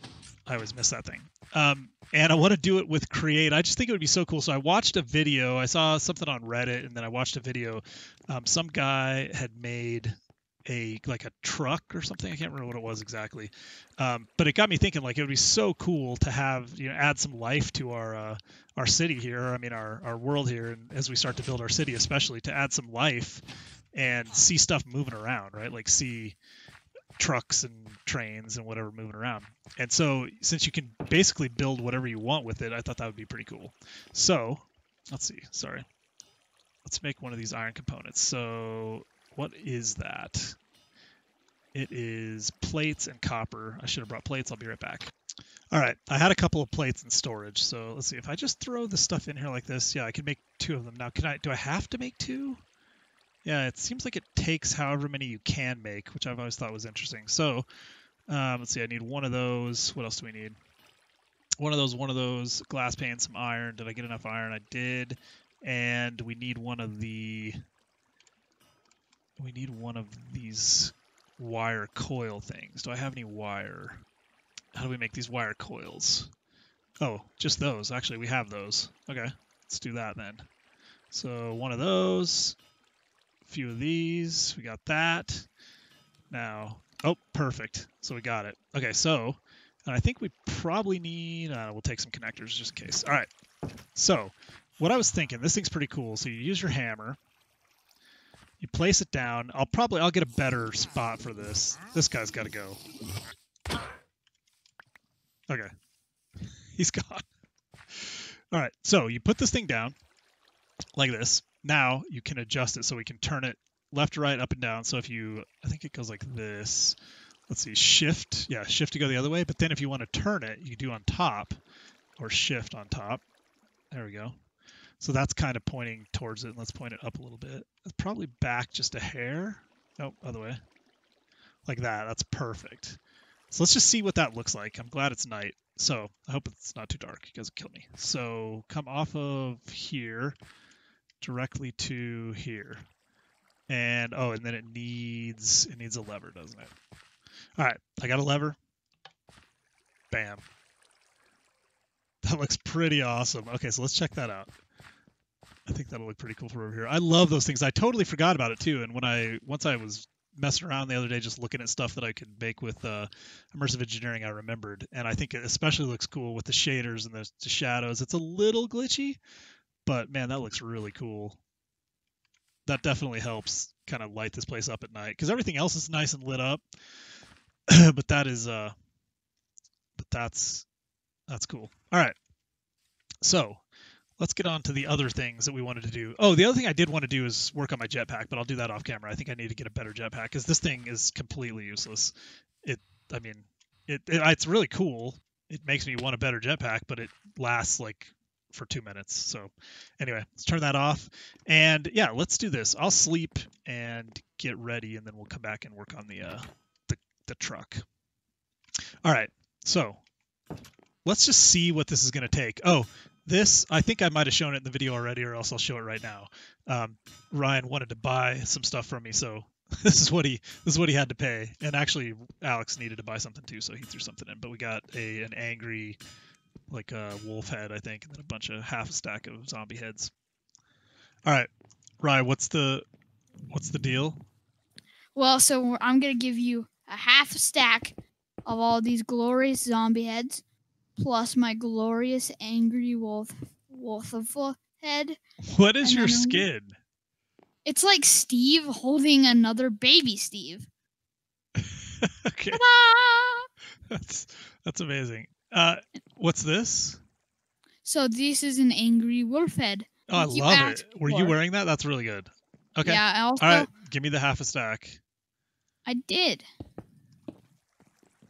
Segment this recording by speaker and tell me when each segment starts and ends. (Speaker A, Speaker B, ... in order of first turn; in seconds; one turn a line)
Speaker A: 0.5-23.4
Speaker A: 23.9-26.4
Speaker A: 27.2-35.9
Speaker A: 36.8-40.6
Speaker A: 41.7-45.1
Speaker A: 45.7-52.6
Speaker A: 53.4-57.6
Speaker A: 58.3-60.6
Speaker A: 61.6-67.6
Speaker A: 69.4-74.0
Speaker A: 74.7-76.3
Speaker A: 77.0-80.5
Speaker A: 81.1-82.6
Speaker A: 83.5-85.5
Speaker A: 86.3-93.3
Speaker A: 93.9-97.2
Speaker A: 98.6-102.8
Speaker A: 106.8-107.2
Speaker A: 107.9-109.9
Speaker A: 111.0-117.0
Speaker A: 117.5-121.6
Speaker A: 122.2-123.2
Speaker A: 123.9-124.4
Speaker A: 125.0-130.6
Speaker A: 131.7-133.0
Speaker A: 133.5-140.3
Speaker A: 141.2-142.8
Speaker A: 143.7-146.7
Speaker A: 147.6-148.6
Speaker A: 150.1-150.4
Speaker A: 152.2-154.5
Speaker A: 155.7-169.2
Speaker A: 169.8-171.4
Speaker A: 172.7-176.6
Speaker A: 177.7-178.7
Speaker A: 180.0-180.7
Speaker A: 181.3-182.2
Speaker A: 183.2-183.6
Speaker A: 184.2-192.1
Speaker A: 192.6-207.8
Speaker A: 209.0-210.0
Speaker A: 211.0-226.0
Speaker A: 226.7-230.1
Speaker A: 232.0-232.8
Speaker A: 233.5-234.2
Speaker B: 235.1-237.9
Speaker B: 238.4-240.4
Speaker B: 240.9-245.2
Speaker A: 245.4-246.8
Speaker B: 245.8-246.5
Speaker B: 247.6-250.7
Speaker A: 251.6-252.6
Speaker B: 252.5-253.5
Speaker A: 253.9-257.0
Speaker B: 257.8-261.3
Speaker A: 260.1-265.0
Speaker B: 262.8-263.7
Speaker B: 265.8-266.4